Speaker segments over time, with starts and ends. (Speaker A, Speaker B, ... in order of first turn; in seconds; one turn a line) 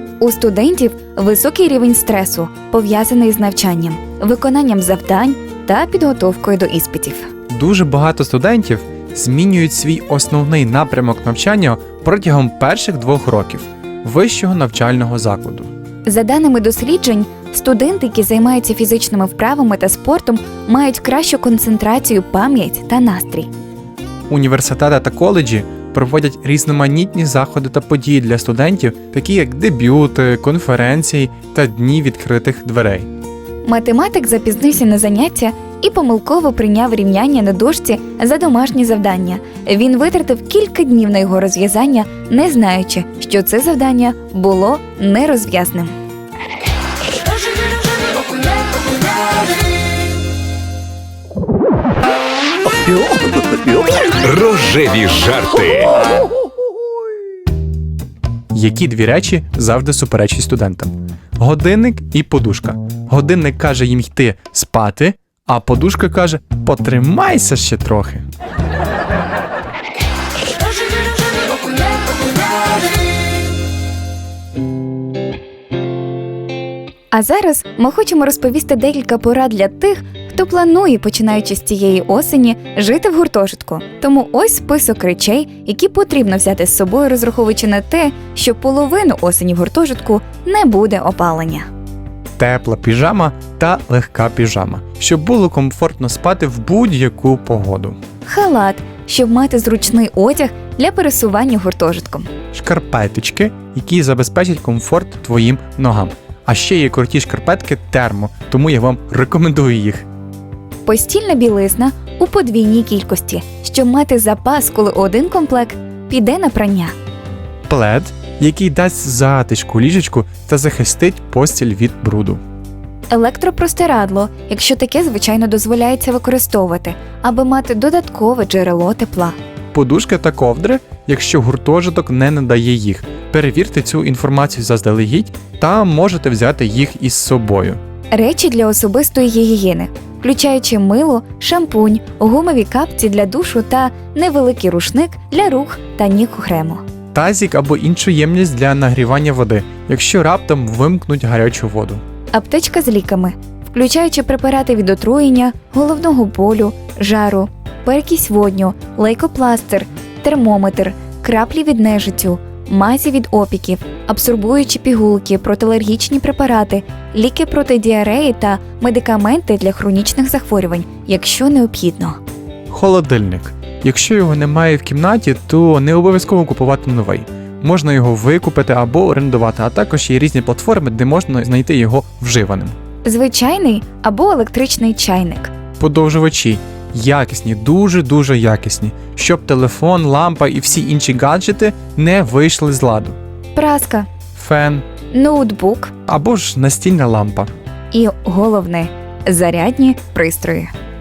Speaker A: 0.2-7.3
Speaker B: 7.5-15.7
Speaker A: 16.1-23.5
Speaker B: 24.3-33.1
Speaker A: 33.7-45.9
Speaker C: 52.9-56.1
Speaker B: 58.5-68.3
Speaker A: 77.1-91.7
Speaker B: 92.4-98.0
Speaker A: 98.3-102.3
Speaker B: 102.5-110.1
Speaker A: 110.9-116.9
Speaker B: 117.7-122.4
Speaker A: 123.1-129.4
Speaker B: 129.7-137.8
Speaker A: 138.1-146.8
Speaker B: 147.1-152.0
Speaker A: 152.3-172.2
Speaker B: 172.7-182.8
Speaker A: 183.1-185.5
Speaker B: 185.8-193.2
Speaker A: 193.6-194.1
Speaker B: 194.4-194.8
Speaker A: 195.1-195.9
Speaker B: 196.1-197.5
Speaker A: 197.9-200.7